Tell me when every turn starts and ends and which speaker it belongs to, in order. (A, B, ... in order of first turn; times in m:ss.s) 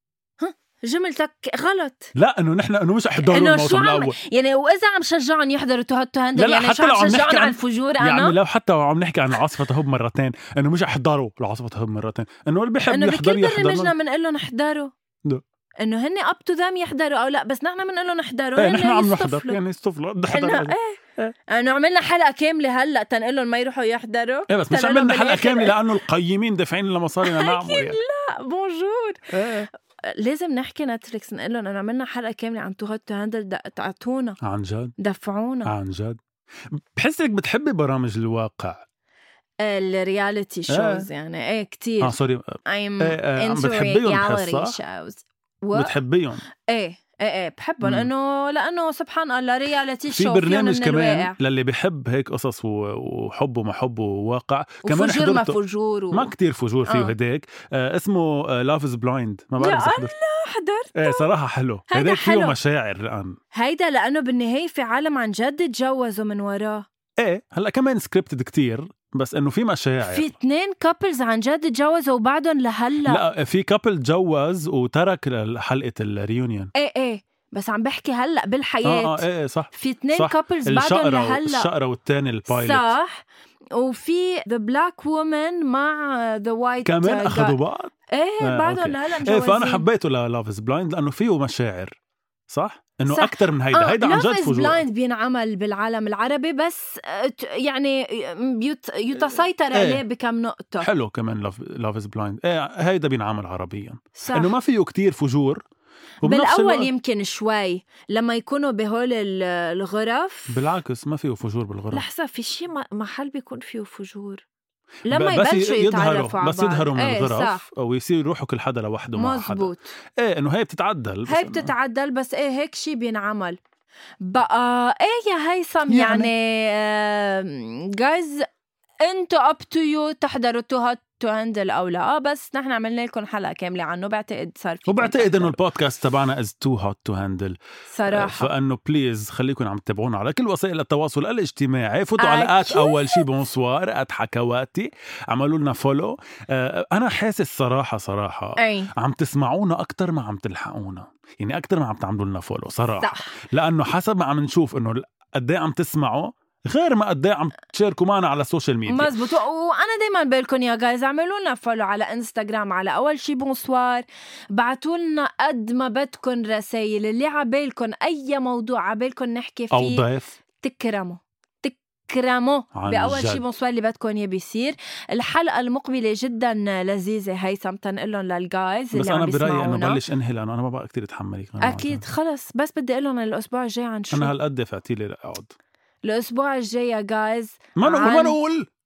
0:00.4-0:02.1 A
0:02.1-0:04.1 B
0:03.2-0:08.4 A
0:06.4-0:13.9 B
0:12.9-0:14.9 A
0:15.8-0:19.6 A
0:18.6-0:20.8 B
0:20.3-0:25.8 A
0:24.5-0:28.0 B
0:27.2-0:34.4 A
0:29.3-0:29.7 B
0:34.4-0:34.9 B
0:35.0-0:35.7 A
0:35.6-0:36.2 B
0:36.7-0:38.8 B
0:39.6-0:46.0 A
0:40.7-0:41.1 B
0:42.0-0:44.8 B
0:45.7-0:46.4 B
0:46.7-0:51.4 A
0:47.8-0:48.1 B
0:50.1-0:55.6 B
0:54.8-0:56.3 A
0:56.1-1:00.1 B
0:56.8-0:57.1 A
0:59.6-1:01.3 A
1:01.0-1:03.4 B
1:01.9-1:02.5 A
1:03.5-1:06.8 A
1:07.2-1:10.3 B
1:10.0-1:13.2 A
1:13.1-1:16.7 B
1:16.8-1:21.7 A
1:18.8-1:22.9 B
1:22.5-1:27.6 A
1:26.8-1:31.9 B
1:28.1-1:29.8 A
1:32.5-1:34.8 B
1:33.1-1:40.9 A
1:39.7-1:40.0 B
1:40.8-1:45.6 B
1:44.2-1:44.5 A
1:46.2-1:46.9 B
1:46.2-1:50.6 A
1:50.5-1:52.0 B
1:51.9-1:54.4 A
1:55.1-1:57.6 A
1:55.1-2:01.7 B
1:59.2-1:59.9 A
2:01.3-2:03.6 A
2:04.2-2:08.5 A
2:05.9-2:06.3 B
2:09.0-2:15.6 A
2:14.9-2:39.1 B
2:17.9-2:18.5 A
2:22.2-2:23.3 A
2:28.6-2:28.9 A
2:33.0-2:33.3 A
2:38.9-2:50.0 A
2:49.7-2:50.4 B
2:50.6-3:00.0 A
2:52.8-2:53.4 B
2:58.9-3:02.0 B
3:01.6-3:04.3 A
3:04.1-3:05.5 B
3:06.0-3:08.4 A
3:07.8-3:08.7 B